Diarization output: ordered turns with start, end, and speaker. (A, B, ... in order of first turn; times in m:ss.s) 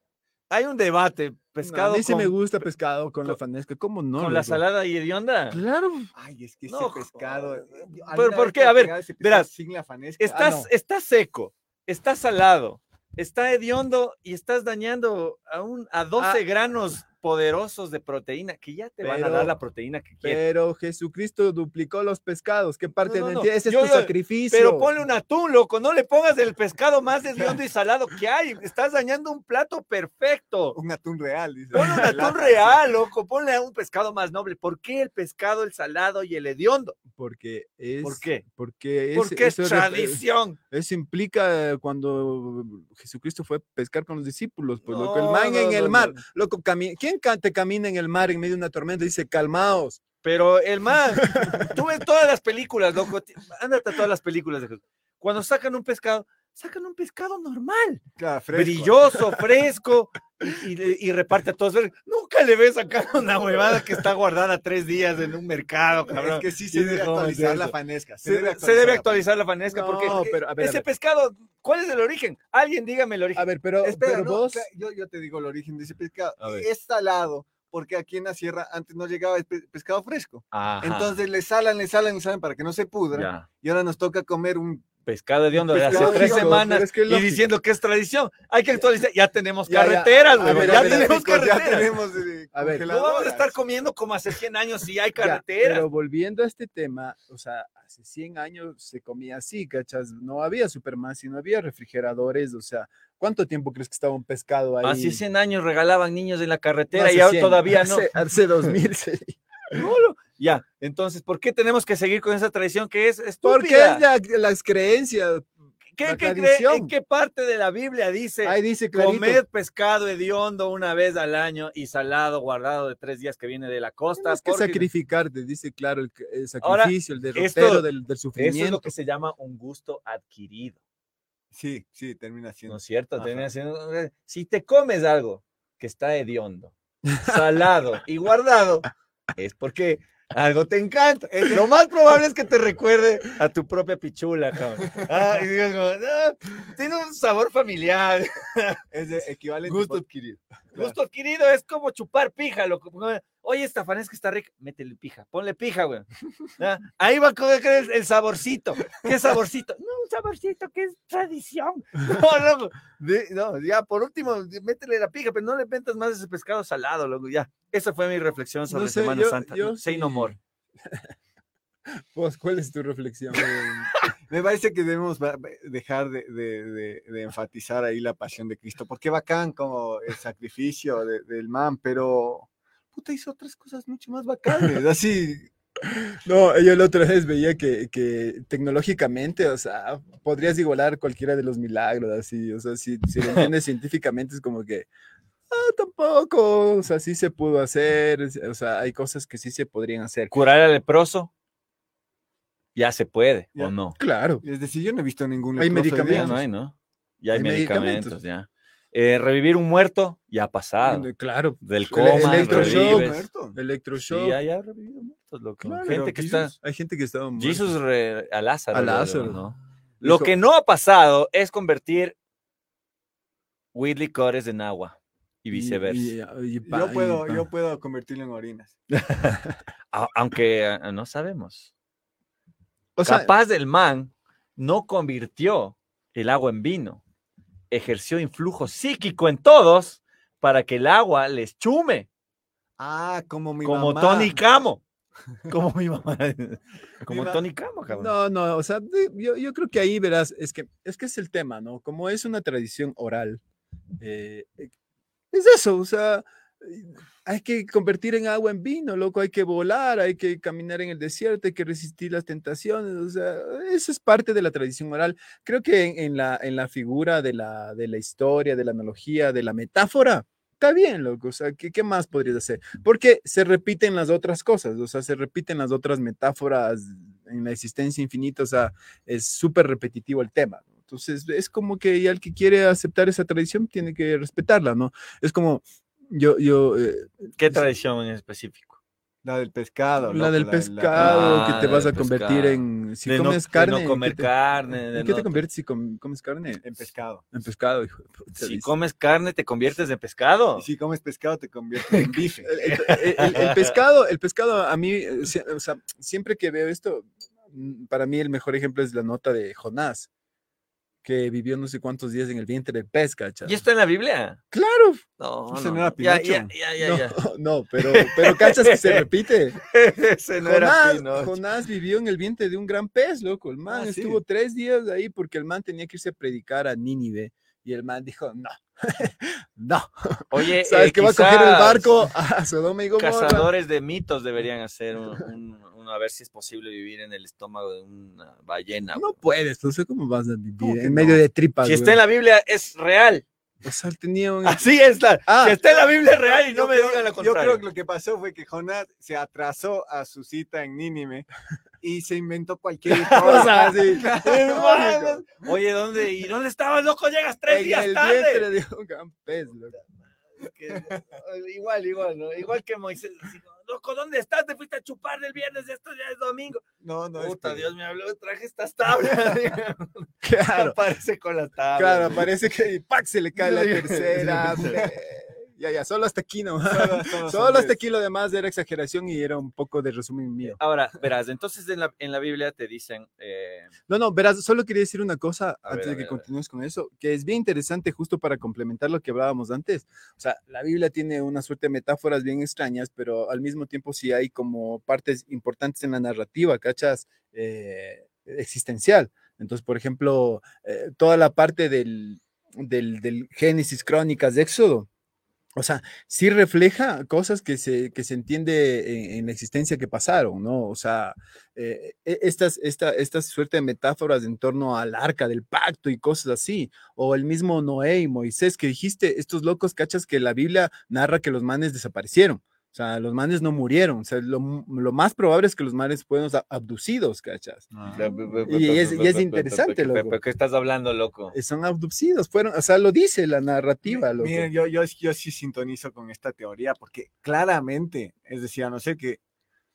0:00.5-0:02.5 A
0:01.6-0:04.6 B
0:04.2-0:05.6 A
0:05.5-0:06.1 B
0:06.1-0:10.4 C
0:06.7-0:09.5 A
0:10.2-0:20.4 A
0:10.3-0:10.7 B
0:16.2-0:16.4 B
0:19.0-0:19.5 B
0:20.2-0:24.9 B
0:23.0-0:30.8 A
0:30.7-0:32.8 C
0:31.7-0:37.0 A
0:31.8-0:32.2 B
0:37.1-0:50.0 B
0:38.0-0:38.4 A
0:39.1-0:40.6 A
0:44.8-0:46.2 A
0:50.2-0:58.0 A
0:51.3-0:51.7 B
0:58.2-0:59.2 C
0:58.5-1:07.7 A
1:06.1-1:09.3 C
1:08.2-1:13.5 A
1:09.7-1:10.8 B
1:13.4-1:14.7 B
1:13.8-1:24.8 C
1:16.4-1:16.7 A
1:20.5-1:21.2 A
1:23.1-1:23.5 A
1:25.1-1:32.0 A
1:25.6-1:26.6 C
1:25.8-1:27.5 B
1:29.7-1:31.2 B
1:30.4-1:33.6 C
1:32.5-1:32.9 B
1:32.9-1:35.9 A
1:35.2-1:45.2 B
1:44.8-1:48.1 A
1:46.9-1:49.8 B
1:49.7-1:54.0 A
1:53.4-1:55.5 B
1:56.0-2:04.9 A
1:56.0-1:56.9 B
1:58.4-1:59.4 B
2:04.2-2:08.9 B
2:06.6-2:10.8 A
2:11.5-2:13.5 C
2:12.7-2:28.8 A
2:21.3-2:21.6 C
2:28.9-2:30.1 C
2:29.7-2:30.4 B
2:30.7-2:50.4 A
2:48.7-2:51.1 B
2:51.9-2:53.9 B
2:53.4-2:54.0 A
2:54.3-3:05.5 C
3:05.9-3:14.9 B
3:15.5-3:20.3 B
3:20.3-3:21.3 A
3:22.8-3:24.0 A
3:24.0-3:24.4 B
3:24.4-3:26.4 C
3:25.6-3:26.4 B
3:26.1-3:31.1 A
3:27.3-3:28.2 B
3:30.8-3:34.4 B
3:31.6-3:33.3 A
3:32.1-3:33.6 C
3:34.0-3:36.5 A
3:35.6-3:37.7 B
3:35.9-3:36.5 C
3:37.4-3:42.2 A
3:38.7-3:39.4 B
3:40.0-3:40.3 B
3:43.7-3:46.1 A
3:45.5-3:47.4 B
3:46.6-3:48.8 C
3:49.1-3:49.4 A
3:49.9-3:51.7 A
3:53.0-3:53.3 B
3:53.1-3:57.0 A
3:57.7-4:02.1 A
4:02.8-4:04.4 C
4:03.6-4:04.8 A
4:05.5-4:08.1 A
4:07.1-4:07.4 C
4:07.9-4:13.4 B
4:14.0-4:14.7 B
4:15.3-4:47.6 B
4:47.4-4:48.8 A
4:49.2-4:51.6 C
4:50.0-4:54.3 B
4:51.0-4:55.4 A
4:54.9-4:56.6 B
4:56.6-4:57.2 C
4:57.3-4:58.7 B
4:58.4-5:00.7 A
5:00.6-5:02.5 C
5:02.4-5:10.1 B
5:02.6-5:03.7 A
5:11.0-5:13.6 B
5:13.4-5:14.4 A
5:14.5-5:15.0 B
5:15.2-5:17.2 A
5:15.5-5:16.5 C
5:16.8-5:19.6 B
5:17.8-5:19.1 A
5:19.6-5:21.4 A
5:20.4-5:33.5 B
5:23.7-5:24.2 C
5:30.3-5:32.0 A
5:33.0-5:39.2 A
5:38.9-5:42.0 B
5:40.6-5:41.2 C
5:41.6-5:43.2 A
5:43.6-5:44.6 B
5:44.4-5:47.6 A
5:45.3-5:45.6 B
5:46.2-5:51.3 C
5:51.8-5:55.2 C
5:53.0-5:58.5 A
5:53.2-5:55.2 B
5:57.5-5:59.8 B
6:00.4-6:06.6 A
6:06.8-6:07.7 C
6:07.2-6:12.3 A
6:10.2-6:10.8 B
6:11.8-6:20.6 B
6:13.4-6:14.8 A
6:14.2-6:14.9 C
6:16.6-6:17.8 C
6:20.4-6:23.7 A
6:23.9-6:44.9 B
6:25.7-6:26.3 A
6:45.6-7:07.7 B
7:07.7-7:08.5 C
7:07.9-7:11.4 A
7:08.5-7:10.2 B
7:11.3-7:14.5 B
7:13.9-7:19.2 C